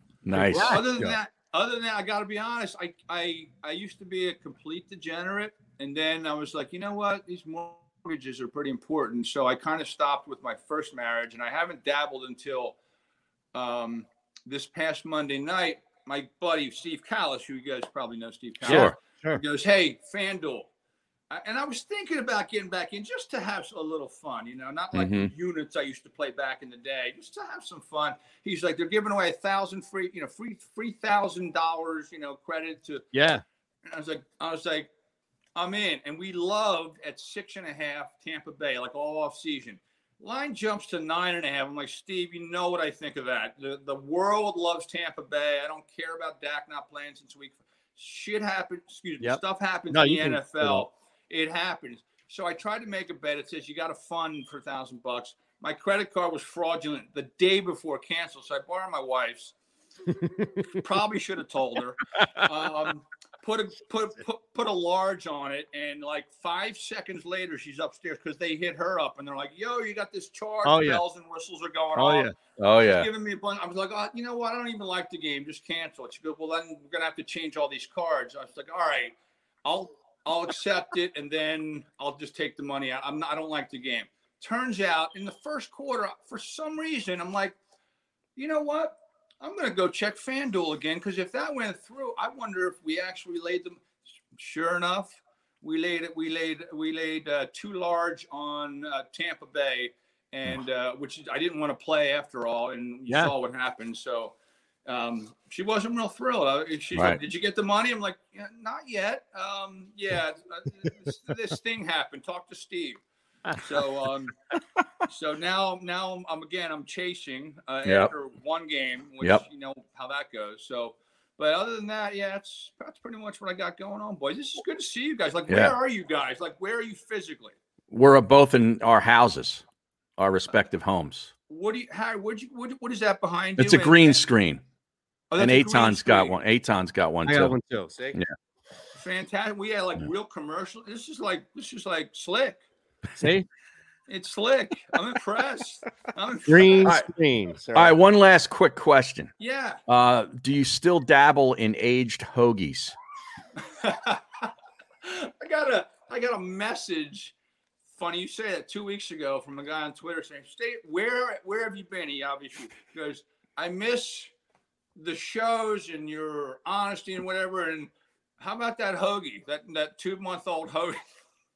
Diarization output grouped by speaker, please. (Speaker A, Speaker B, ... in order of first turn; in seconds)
Speaker A: 0.2-0.8, 18.6-18.9, 24.9-25.3, 72.6-73.1, 106.9-107.2, 117.8-118.1, 125.5-125.8, 127.9-129.6, 130.2-131.3, 133.6-134.6, 135.4-137.6, 147.7-149.3, 149.9-152.9
Speaker B: 0.3-1.2, 18.6-19.4, 33.1-33.4, 49.2-50.9, 70.6-71.0, 72.0-72.3, 103.1-103.3, 137.2-138.2, 143.2-143.4, 146.4-147.9
Speaker C: 0.4-12.7, 13.5-20.7, 21.3-33.0, 33.8-34.9, 35.5-59.5, 60.7-87.5, 88.3-104.3, 104.8-113.0, 113.6-114.3, 115.1-127.5, 131.5-134.3, 135.3-136.3, 139.0-142.6, 144.1-146.9, 149.4-149.8, 153.8-154.4, 155.0-157.3, 157.9-164.3, 164.9-171.0